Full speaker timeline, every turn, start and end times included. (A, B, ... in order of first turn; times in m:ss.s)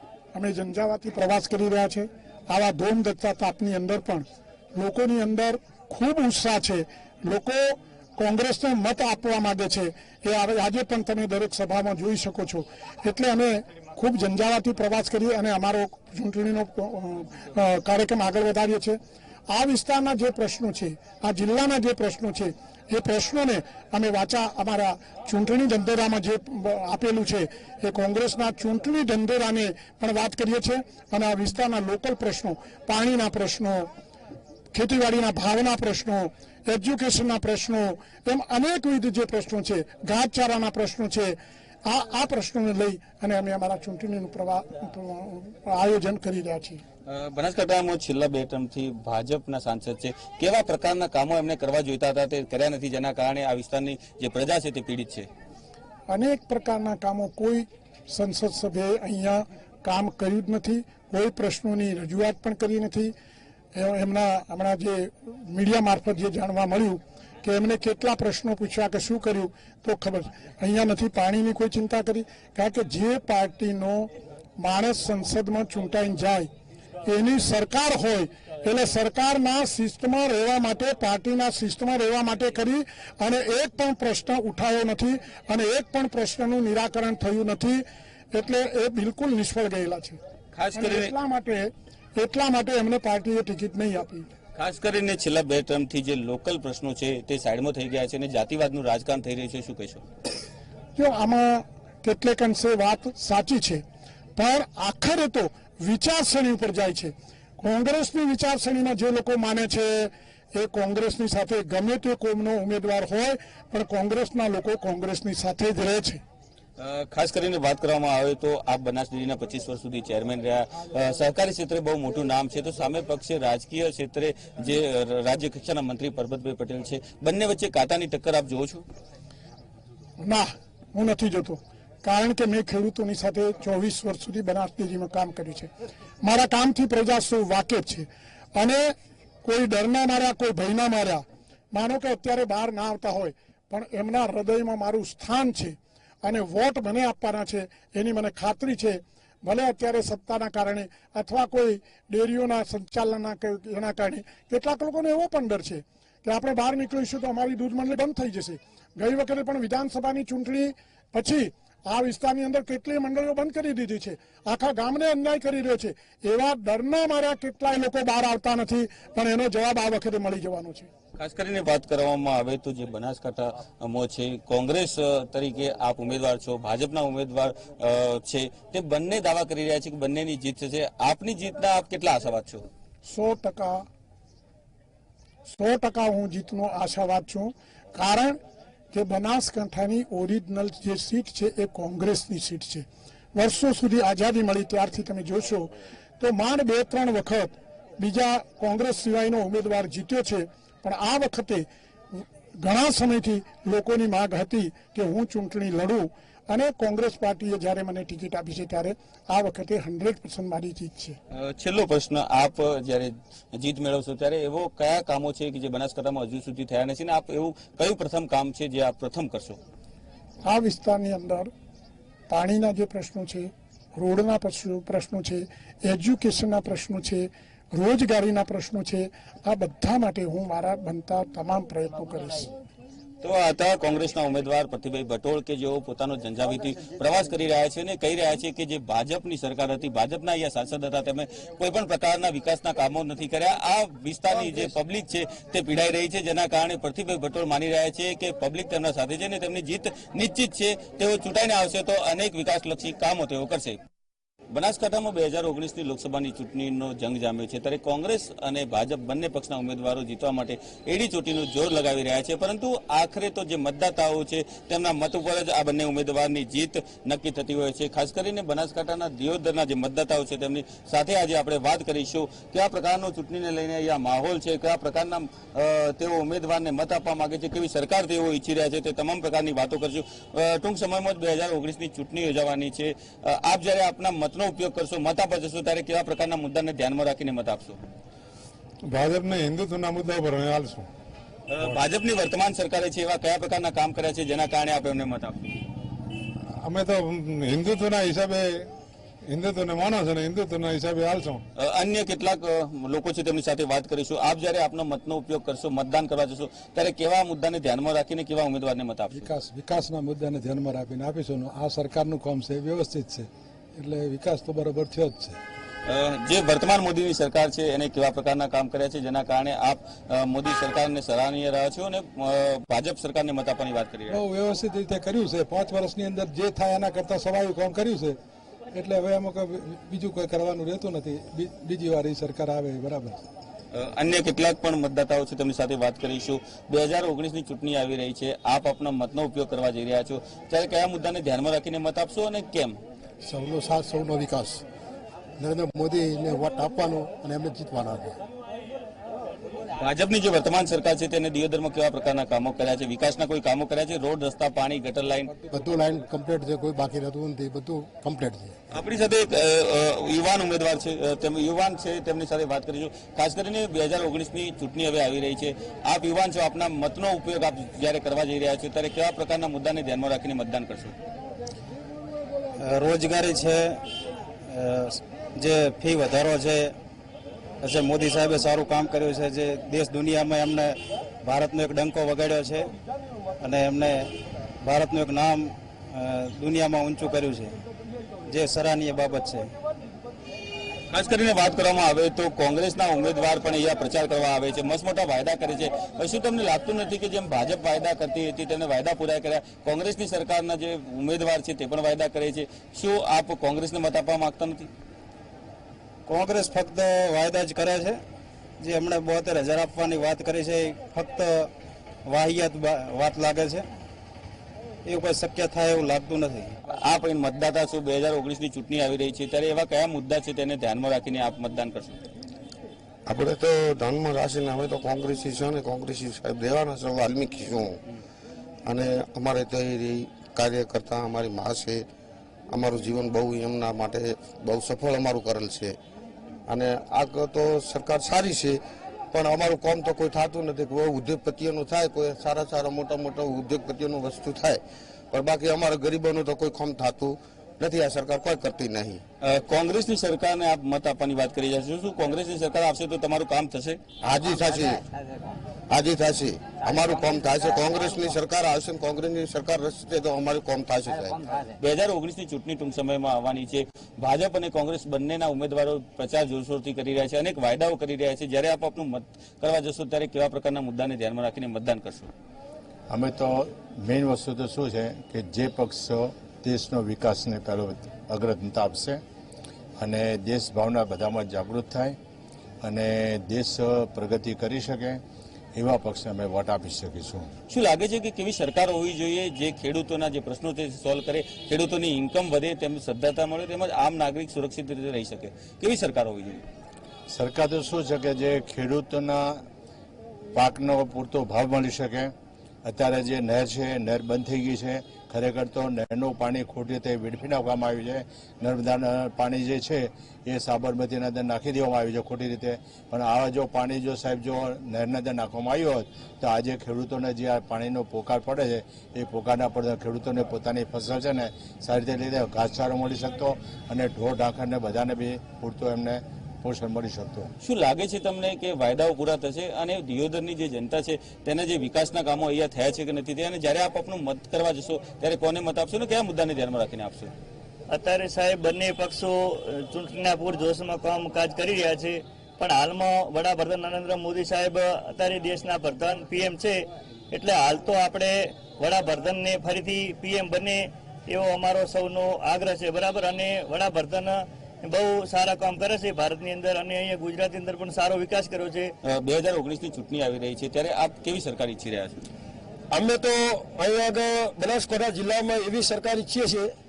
0:00.3-0:33.9 A
0:34.7-0:46.8 A
0:47.1-0:55.3 B
0:56.1-1:03.1 A
1:03.7-1:16.5 A
1:17.0-1:30.2 A
1:30.6-1:31.1 B
1:30.8-1:34.3 A
1:34.6-1:40.0 B
1:41.0-1:43.8 A
1:44.4-1:56.2 A
1:56.8-2:08.8 B
2:10.2-2:15.7 A
2:16.2-2:50.9 A
2:51.2-3:02.6 B
3:03.1-3:03.9 A
3:05.5-3:08.4 A
3:08.9-3:31.2 A
3:31.3-3:39.6 B
3:40.4-3:41.5 A
3:42.3-3:52.5 A
3:53.2-4:13.8 B
4:14.5-4:47.8 B
4:48.9-4:50.9 C
4:51.5-4:55.6 B
4:56.4-4:58.7 C
4:59.3-5:01.4 C
5:01.6-5:09.3 B
5:09.1-5:15.4 D
5:15.9-5:24.2 B
5:24.1-5:28.2 D
5:28.7-5:33.2 D
5:33.7-5:42.8 B
5:43.2-5:44.6 E
5:45.4-5:48.2 E
5:49.8-5:55.3 B
5:55.5-5:58.6 E
5:58.7-6:11.0 B
6:12.6-6:13.8 F
6:14.5-6:16.7 F
6:17.6-6:22.7 F
6:23.4-6:27.6 F
6:28.3-6:29.5 F
6:30.9-6:44.7 B
6:46.1-6:48.0 F
6:48.6-6:51.5 F
6:52.1-6:53.7 F
6:54.9-6:56.6 F
6:56.7-7:02.0 B
7:03.1-7:07.8 G
7:08.6-7:11.9 G
7:12.5-7:15.8 G
7:16.5-7:18.6 G
7:19.1-7:24.6 G
7:25.1-7:29.0 G
7:29.2-7:33.8 B
7:34.0-7:34.8 G
7:35.7-7:41.3 G
7:41.6-7:52.1 B
7:52.9-7:59.0 H
7:59.8-8:02.0 H
8:02.6-8:05.0 H
8:05.6-8:07.3 H
8:07.5-8:16.4 B
8:17.1-8:19.4 H
8:20.3-8:47.3 H
8:47.4-8:57.1 B
8:57.7-9:18.8 I
9:18.8-9:22.0 B
9:22.7-9:26.5 J